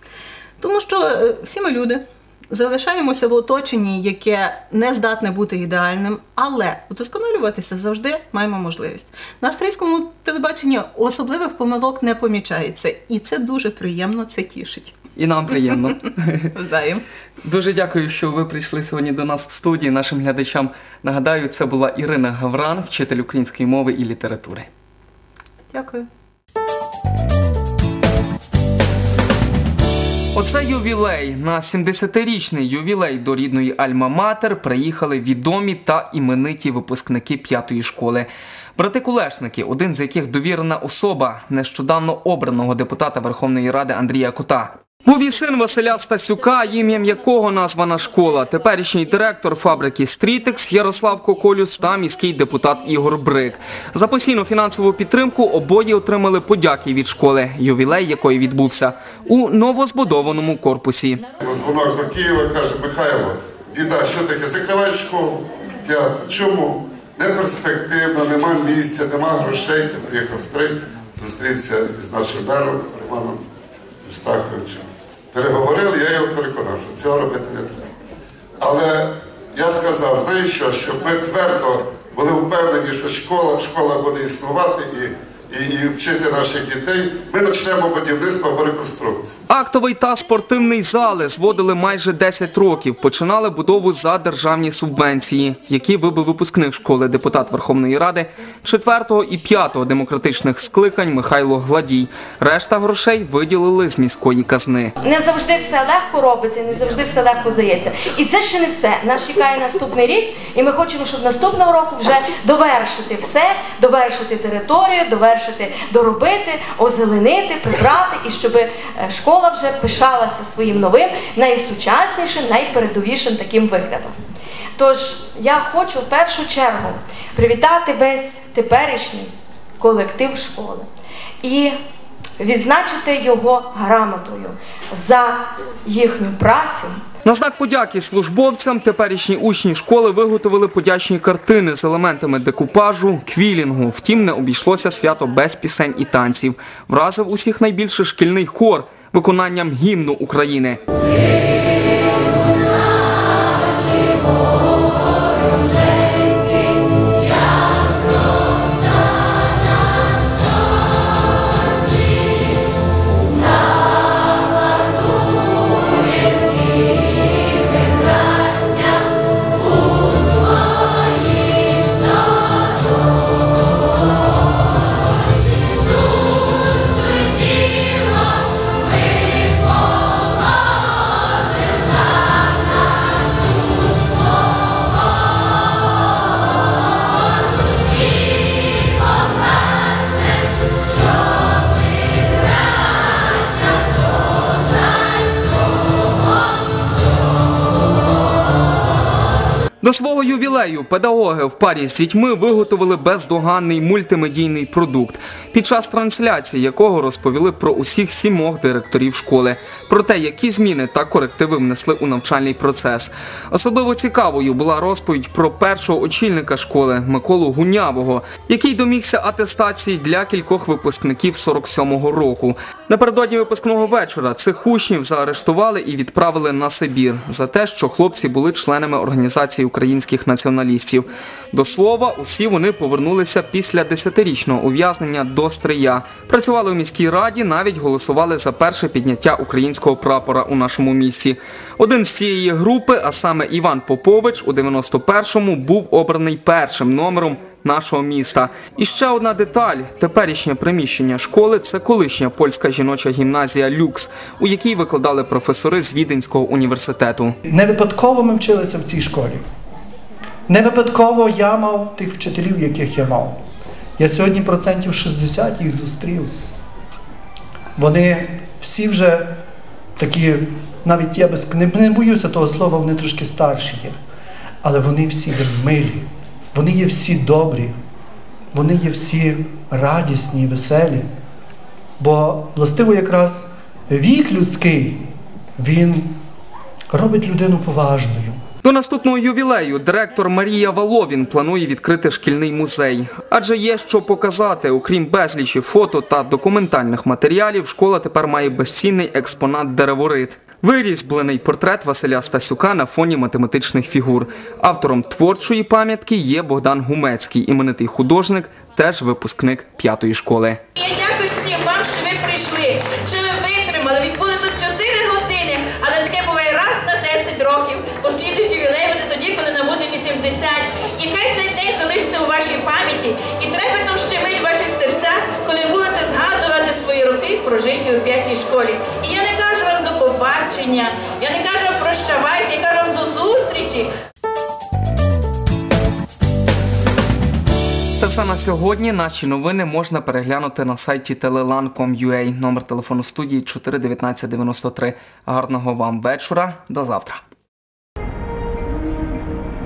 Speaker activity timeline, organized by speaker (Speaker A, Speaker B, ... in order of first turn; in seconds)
Speaker A: 0.6-14.9, 16.5-17.0, 25.7-26.1
Speaker B: 15.2-16.5, 17.4-24.7, 30.3-61.2, 89.5-104.9, 137.2-150.8, 199.8-257.4, 288.6-310.6, 338.0-347.2
Speaker C: 61.4-73.4, 74.0-77.9, 78.6-89.3
Speaker D: 105.0-124.2, 124.8-130.9, 131.4-131.8, 132.4-137.0
Speaker E: 257.4-259.4, 260.5-263.4, 264.0-266.3, 267.8-269.3, 270.0-273.9, 274.6-277.7, 278.5-281.1, 282.0-285.1, 285.6-286.2, 286.9-288.4
Speaker F: 310.7-333.9